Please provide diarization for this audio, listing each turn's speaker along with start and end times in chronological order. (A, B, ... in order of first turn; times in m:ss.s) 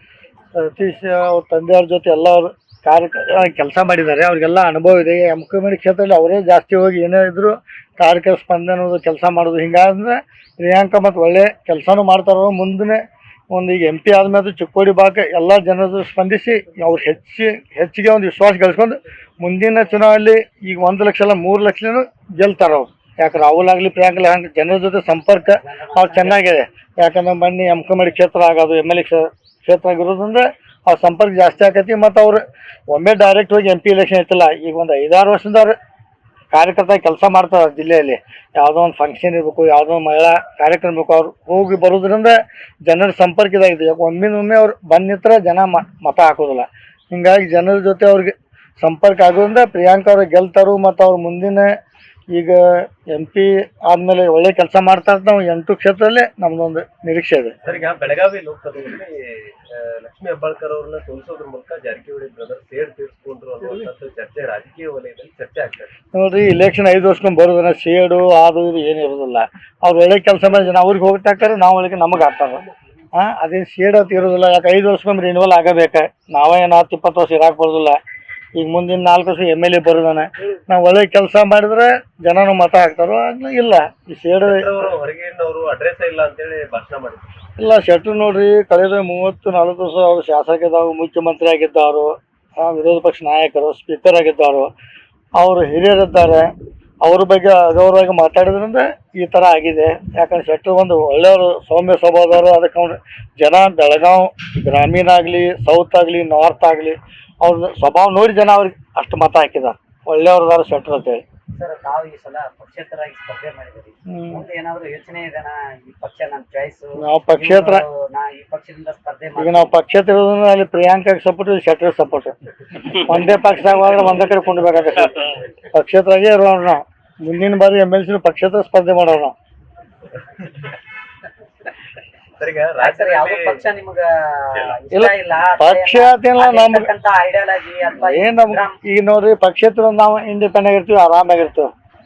0:00.5-0:35.8 A
0:25.5-0:26.6 B
0:36.5-0:51.7 A
0:52.3-0:57.5 A
0:57.6-1:05.9 C
1:06.1-1:18.0 A
1:18.5-1:24.7 A
1:24.4-1:27.3 C
1:27.6-1:34.7 A
1:35.4-1:36.5 A
1:37.0-1:51.2 A
1:51.5-1:59.7 B
1:54.1-1:54.4 A
1:57.0-1:57.8 A
1:59.4-2:09.3 A
2:10.4-2:10.7 C
2:12.4-2:13.6 C
2:12.8-2:18.7 B
2:14.9-2:16.9 A
2:18.0-2:21.7 A